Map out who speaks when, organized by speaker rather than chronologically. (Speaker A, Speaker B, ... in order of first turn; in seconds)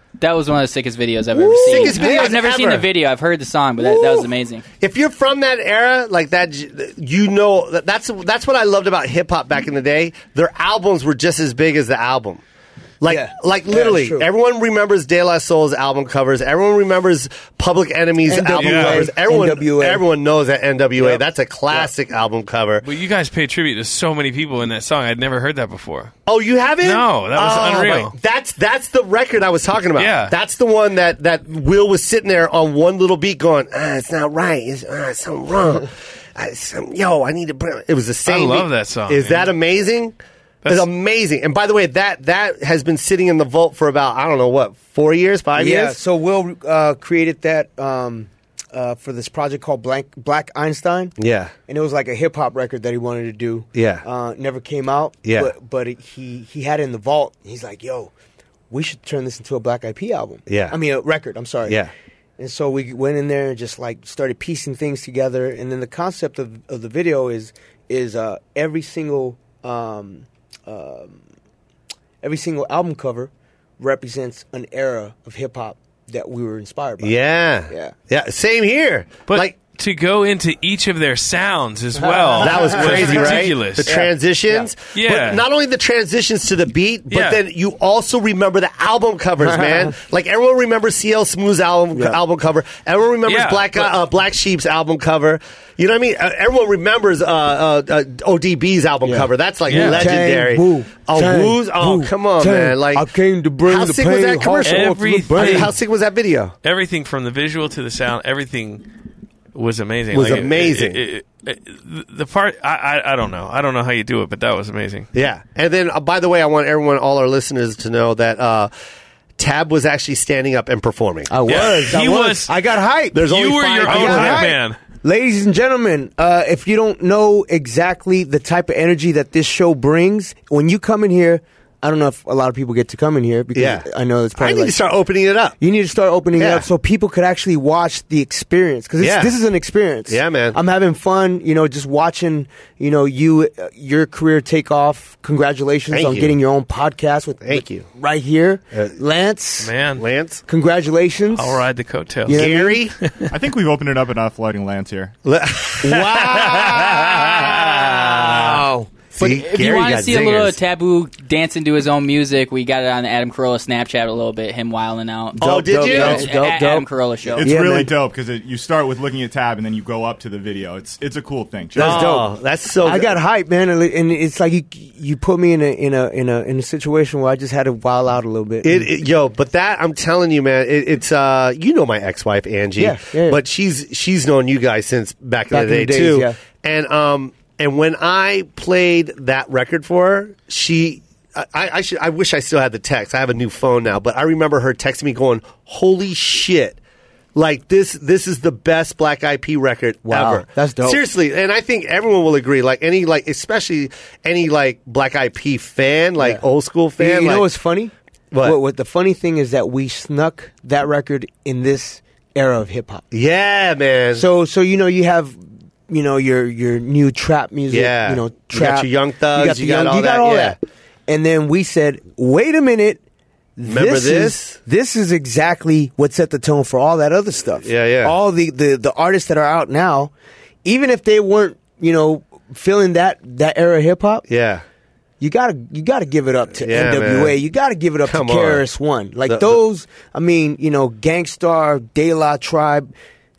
Speaker A: 0.2-4.6, 159.2-167.5
Speaker B: 1.3-2.3, 13.1-14.3, 18.3-20.1, 21.0-21.9, 45.6-51.1, 51.7-58.1, 58.7-61.8, 62.4-71.2, 72.2-77.2, 77.7-77.9, 82.0-84.7, 89.4-89.9, 91.9-92.2, 99.0-105.7, 121.3-123.3, 123.8-134.8, 135.6-149.7, 150.5-151.6, 152.3-152.8, 155.8-159.0, 165.4-166.9, 167.4-167.9, 171.7-178.9, 182.8-183.4, 185.5-186.4, 200.1-201.0, 206.2-206.4, 207.0-213.1, 214.1-223.0, 223.6-230.1, 230.6-234.2, 235.2-242.9
Speaker C: 1.6-2.9, 4.8-12.4, 13.0-22.9, 26.3-46.0, 51.2-51.5, 53.7-54.0, 55.2-55.5, 60.5-60.8, 61.7-61.9, 77.0-79.5, 82.4-103.1, 103.6-106.5, 110.1-111.0, 115.1-118.7, 119.4-122.0, 123.1-124.5, 133.6-135.6, 136.4-136.7, 139.0-139.4, 140.1-140.6, 145.9-146.4, 147.4-147.9, 149.9-150.4, 152.3-152.9, 155.2-158.6, 159.1-160.6, 165.4-166.4, 171.8-173.2, 178.6-196.8, 197.3-207.5, 208.3-208.6, 213.1-214.2, 217.7-220.6, 223.6-224.6, 227.6-228.1, 234.3-234.6, 236.6-237.4, 238.1-238.7, 239.3-239.6
Speaker D: 18.6-19.1, 22.8-26.1, 26.8-28.1, 30.0-30.4, 38.3-39.5, 79.3-84.0, 84.9-85.4, 87.1-87.4, 93.3-94.0, 99.7-100.1, 104.6-105.8, 106.6-108.9, 109.5-115.1, 121.5-122.5, 123.1-124.8, 149.6-150.1, 151.4-152.5, 153.0-153.3
Speaker E: 153.3-155.2, 167.3-172.2